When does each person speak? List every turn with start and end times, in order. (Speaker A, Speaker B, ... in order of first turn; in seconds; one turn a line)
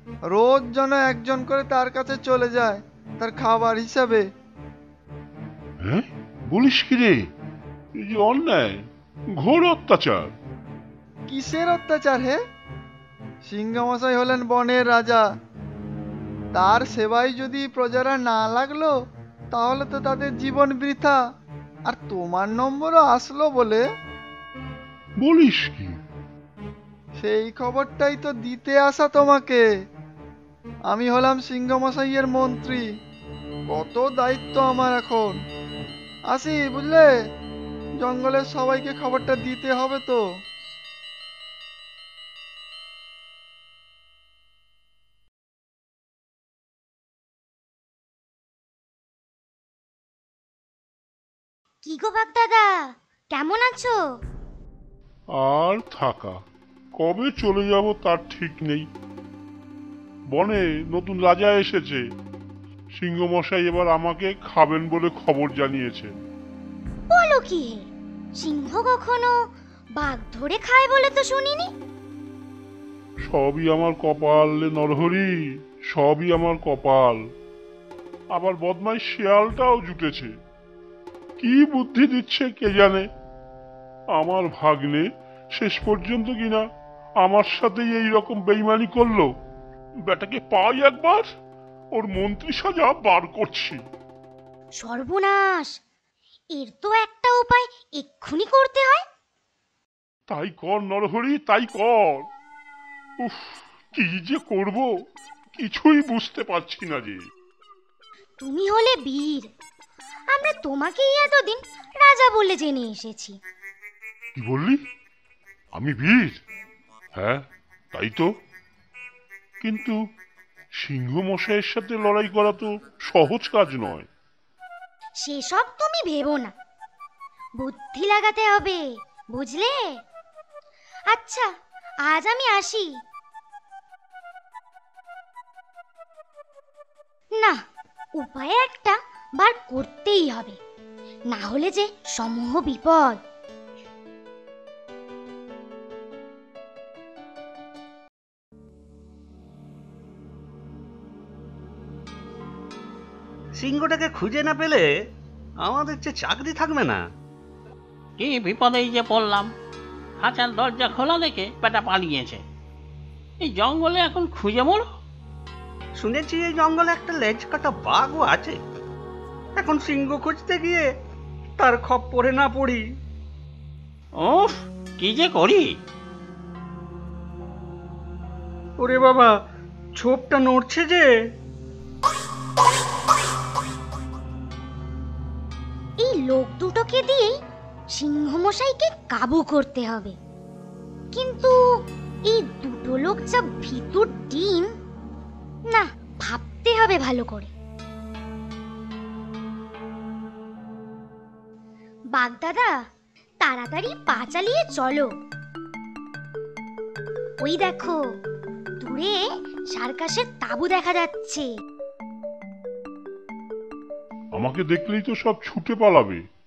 Speaker A: 0.3-4.3
Speaker B: 5.8-7.2
Speaker B: 8.0-10.3
Speaker A: 11.3-12.4
Speaker A: 13.4-15.3
Speaker A: 16.5-19.0
Speaker A: 19.5-21.2
Speaker A: 21.9-23.9
Speaker B: 25.2-26.0
Speaker A: 27.2-29.6
Speaker A: 30.9-32.9
Speaker A: 33.7-35.4
Speaker A: 36.3-37.1
Speaker A: 38.0-40.2
Speaker C: 51.8-54.0
Speaker B: 55.3-56.4
Speaker B: 57.0-58.9
Speaker B: 60.3-62.0
Speaker B: 62.9-66.2
Speaker C: 67.1-71.7
Speaker B: 73.2-75.3
Speaker B: 75.9-77.2
Speaker B: 78.3-80.3
Speaker B: 81.4-83.1
Speaker B: 84.2-86.6
Speaker B: 87.2-89.3
Speaker B: 90.0-91.2
Speaker B: 92.0-93.8
Speaker C: 94.8-95.8
Speaker C: 96.5-99.0
Speaker B: 100.3-102.3
Speaker B: 103.2-104.9
Speaker B: 105.5-107.2
Speaker C: 108.4-109.5
Speaker C: 110.3-113.4
Speaker B: 114.3-114.8
Speaker B: 115.8-116.4
Speaker B: 117.2-118.3
Speaker B: 119.6-120.0
Speaker B: 120.8-124.1
Speaker C: 125.2-126.5
Speaker C: 127.6-129.9
Speaker C: 131.1-131.5
Speaker C: 132.1-132.9
Speaker C: 138.2-140.6
Speaker C: 141.3-143.2
Speaker D: 153.6-154.9
Speaker D: 155.6-157.1
Speaker E: 158.2-159.5
Speaker E: 160.2-162.4
Speaker E: 163.4-164.9
Speaker D: 166.0-168.6
Speaker D: 169.6-170.9
Speaker D: 171.6-172.8
Speaker E: 174.2-175.7
Speaker D: 178.8-179.3
Speaker D: 180.0-181.1
Speaker C: 186.0-187.3
Speaker C: 188.0-190.2
Speaker C: 191.1-191.6
Speaker C: 192.3-194.7
Speaker C: 195.7-197.5
Speaker C: 202.1-202.8
Speaker C: 203.4-205.1
Speaker C: 207.4-208.0
Speaker C: 208.8-211.5
Speaker B: 214.3-216.2